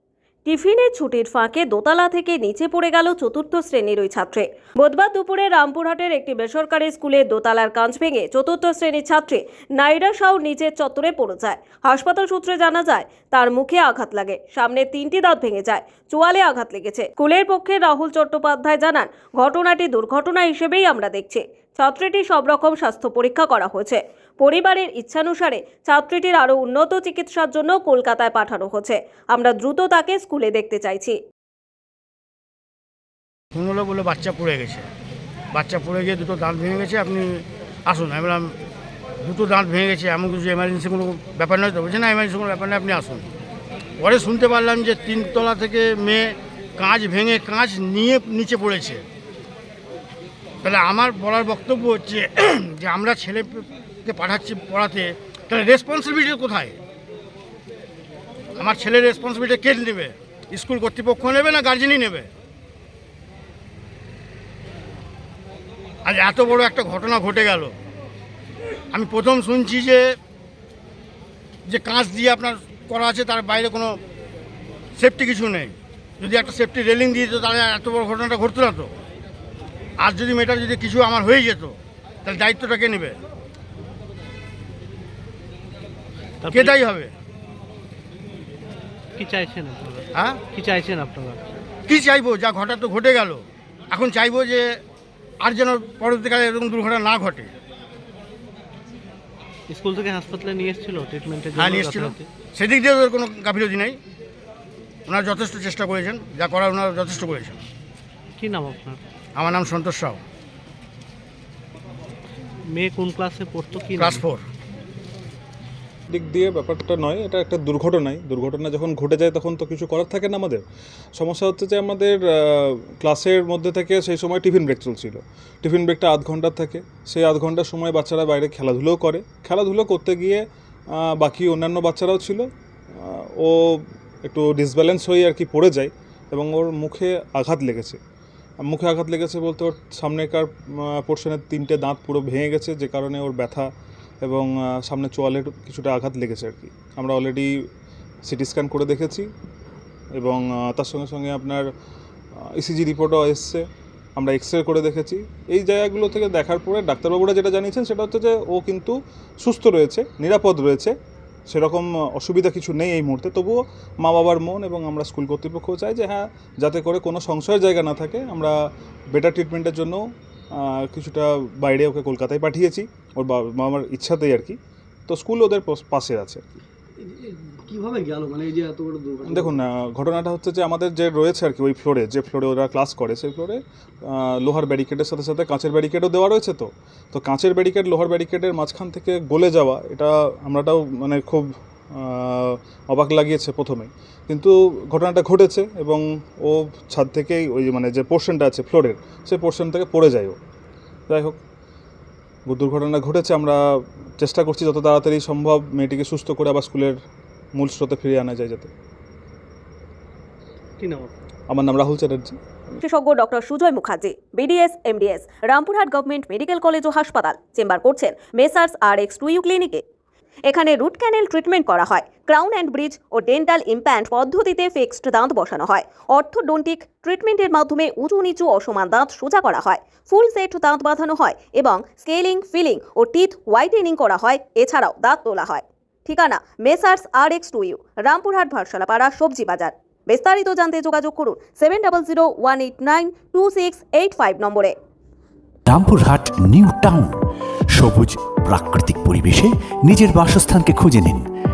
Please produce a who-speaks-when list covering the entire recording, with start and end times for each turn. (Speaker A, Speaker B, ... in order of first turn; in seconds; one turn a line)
Speaker A: 0.5-31.2
Speaker B: 33.5-34.9
Speaker B: 35.5-38.5
Speaker B: 39.2-43.3
Speaker B: 44.0-49.0
Speaker B: 50.6-56.8
Speaker B: 58.6-62.3
Speaker B: 66.0-67.8
Speaker B: 68.9-70.2
Speaker B: 71.7-74.0
Speaker B: 75.0-78.9
Speaker B: 80.0-83.2
Speaker C: 86.4-86.8
Speaker B: 86.5-87.1
Speaker C: 89.2-91.4
Speaker B: 90.1-90.4
Speaker B: 91.9-94.8
Speaker B: 95.4-97.5
Speaker C: 99.7-102.2
Speaker B: 101.5-104.0
Speaker B: 105.1-107.6
Speaker C: 108.4-109.0
Speaker B: 109.3-110.2
Speaker C: 112.7-114.2
Speaker B: 114.0-114.4
Speaker D: 116.1-120.6
Speaker D: 121.1-138.0
Speaker D: 138.6-143.7
Speaker D: 144.2-147.5
Speaker D: 148.2-149.3
Speaker D: 150.2-151.6
Speaker D: 152.4-153.6
Speaker D: 154.2-160.9
Speaker D: 161.5-168.6
Speaker D: 169.1-170.0
Speaker D: 170.5-176.4
Speaker E: 177.0-179.6
Speaker D: 179.2-200.4
Speaker D: 201.1-201.4
Speaker D: 202.5-203.6
Speaker D: 204.2-207.0
Speaker D: 207.5-208.7
Speaker C: 210.8-211.1
Speaker D: 211.5-212.4
Speaker A: 212.8-219.8
Speaker A: 220.5-244.7
Speaker F: 245.7-247.1
Speaker F: 247.7-251.2